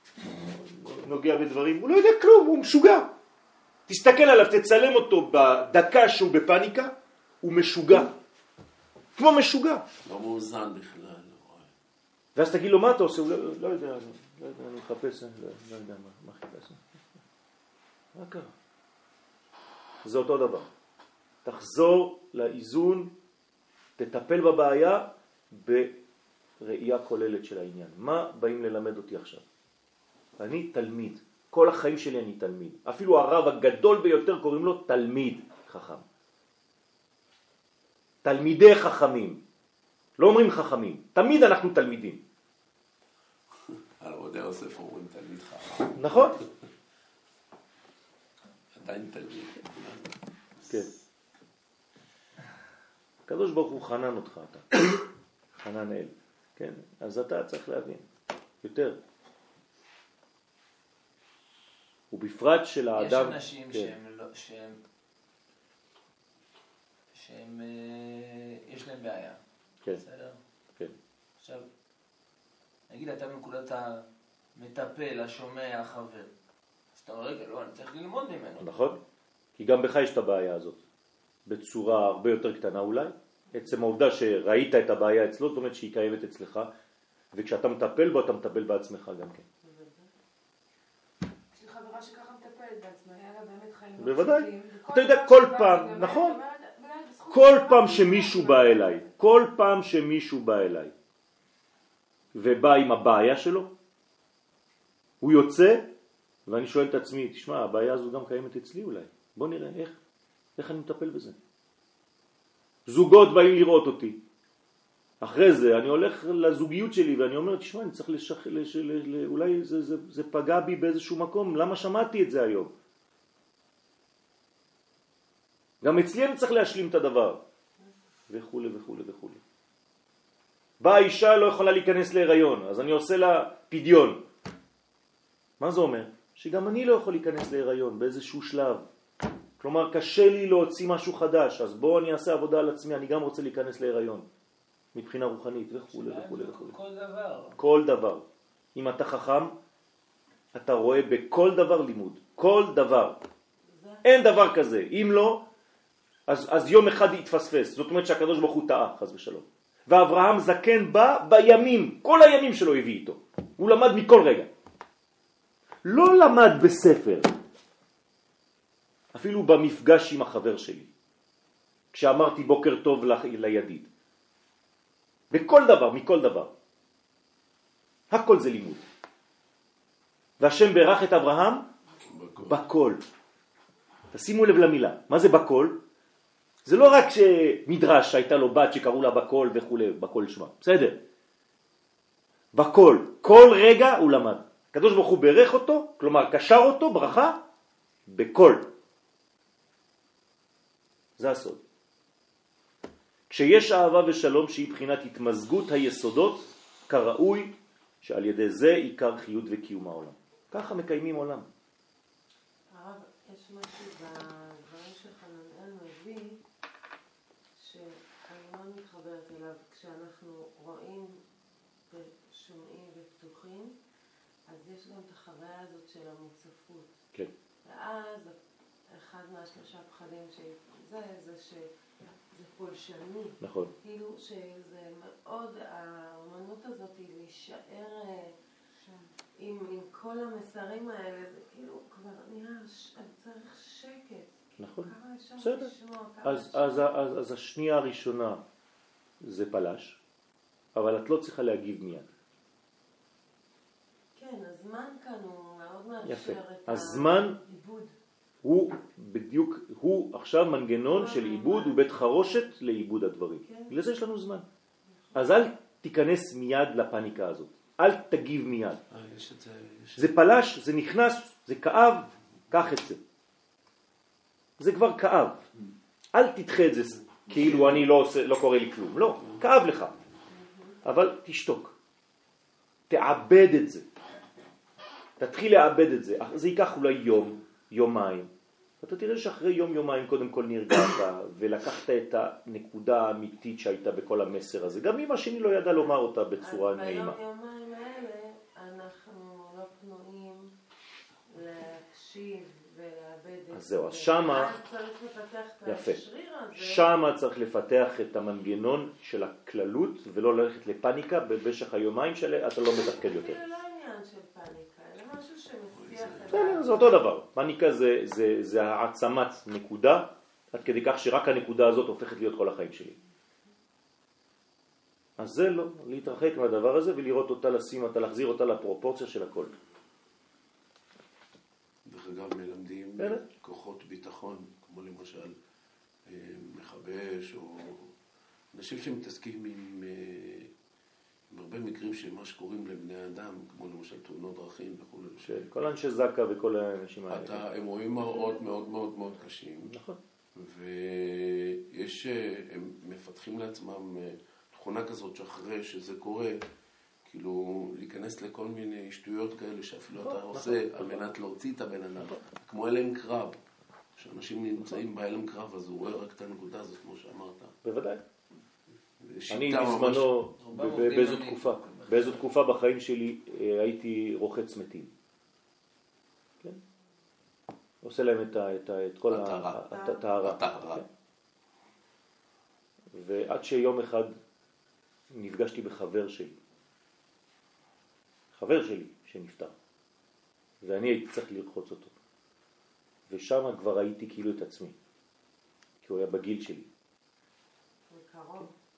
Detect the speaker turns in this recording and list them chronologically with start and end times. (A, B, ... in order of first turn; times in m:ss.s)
0:00.4-0:03.1 A
0:03.9-0:08.1 A
0:09.2-0:09.8 A
0:10.0-0:11.7 B
0:12.3-0:17.0 A
0:18.1-0:18.5 A
0:20.0-0:20.7 A
0:21.4-0:23.1 A
0:24.0-0:26.0 A
0:26.6-0:29.4 A
0:30.4-0:36.0 A
0:38.2-0:39.4 A
0:40.2-0:42.2 A
0:43.7-0:46.4 B
0:46.0-0:46.4 A
0:48.7-0:50.1 B
0:53.3-0:54.8 A
0:55.6-0:58.0 A
0:58.6-0:59.0 A
1:02.1-1:03.9 A
1:02.9-1:04.8 C
1:07.1-1:09.4 C
1:09.9-1:10.4 C
1:11.4-1:11.6 C
1:12.9-1:14.0 C
1:14.6-1:16.3 C
1:16.9-1:18.7 C
1:18.6-1:19.0 A
1:19.6-1:20.8 A
1:21.4-1:26.7 A
1:27.3-1:29.4 A
1:29.6-1:30.1 D
1:31.5-1:39.1 E
1:34.0-1:36.4 A
1:37.3-1:40.9 A
1:42.3-1:43.7 A
1:45.2-1:45.9 A
1:46.4-1:50.0 A
1:50.6-1:51.4 A
1:52.9-1:54.2 A
1:55.2-2:02.7 A
2:05.8-2:07.4 A
2:08.3-2:09.4 A
2:10.8-2:14.2 A
2:15.6-2:18.9 A
2:19.6-2:24.2 A
2:24.9-2:26.8 A
2:25.9-2:27.6 C
2:27.6-2:29.6 A
2:30.5-2:33.2 A
2:33.6-2:34.2 D
2:34.0-2:35.4 A
2:36.3-2:44.5 A
2:45.8-2:47.3 A
2:49.1-2:50.9 A
2:51.9-2:53.9 A
2:55.3-2:56.5 A
2:58.1-2:58.8 A
3:00.4-3:01.7 A
3:02.0-3:02.6 B
3:02.4-3:03.0 A
3:04.1-3:05.8 A
3:06.6-3:11.0 A
3:12.5-3:17.4 A
3:18.1-3:18.7 A
3:21.2-3:21.6 A
3:23.3-3:31.5 A
3:32.7-3:36.4 D
3:37.6-3:41.2 D
3:41.9-3:43.8 D
3:44.5-3:47.0 D
3:47.6-3:51.7 D
3:52.3-3:58.4 D
3:53.4-3:53.7 A
3:58.8-3:59.1 E
3:59.4-4:07.0 D
4:04.6-4:05.7 A
4:06.2-4:08.4 A
4:09.2-4:10.0 A
4:10.7-4:12.1 A
4:14.1-4:17.9 D
4:16.0-4:17.4 A
4:18.4-4:24.4 A
4:20.9-4:22.5 D
4:23.4-4:23.8 D
4:25.1-4:28.8 A
4:28.9-4:30.1 B
4:30.0-4:33.0 A
4:34.6-4:35.4 A
4:36.1-4:39.9 A
4:37.2-4:37.8 B
4:40.8-4:41.7 A
4:42.9-4:43.8 A
4:45.2-4:48.3 A
4:48.8-4:57.2 A
4:56.4-5:00.5 D
5:01.3-5:07.1 D
5:03.5-5:04.5 A
5:05.6-5:06.0 A
5:06.5-5:13.4 A
5:13.0-5:17.1 D
5:15.7-5:16.6 B
5:16.3-5:23.0 A
5:25.2-5:29.5 A
5:31.9-5:35.3 B
5:36.0-5:37.9 B
5:38.5-5:40.5 B
5:41.3-5:45.5 B
5:45.2-5:47.4 A
5:47.1-5:49.7 B
5:49.6-5:50.0 A
5:50.3-5:56.4 B
5:57.0-6:03.4 B
6:00.0-6:01.1 A
6:04.0-6:07.6 B
6:07.6-6:08.0 A
6:09.0-6:10.1 B
6:09.3-6:14.9 A
6:10.4-6:12.2 C
6:17.8-6:20.9 A
6:19.1-6:20.8 B
6:22.9-6:24.1 A
6:25.1-6:26.4 A
6:28.3-6:29.5 A
6:30.6-6:31.9 A
6:33.1-6:34.7 A
6:35.8-6:36.7 A
6:37.9-6:38.5 D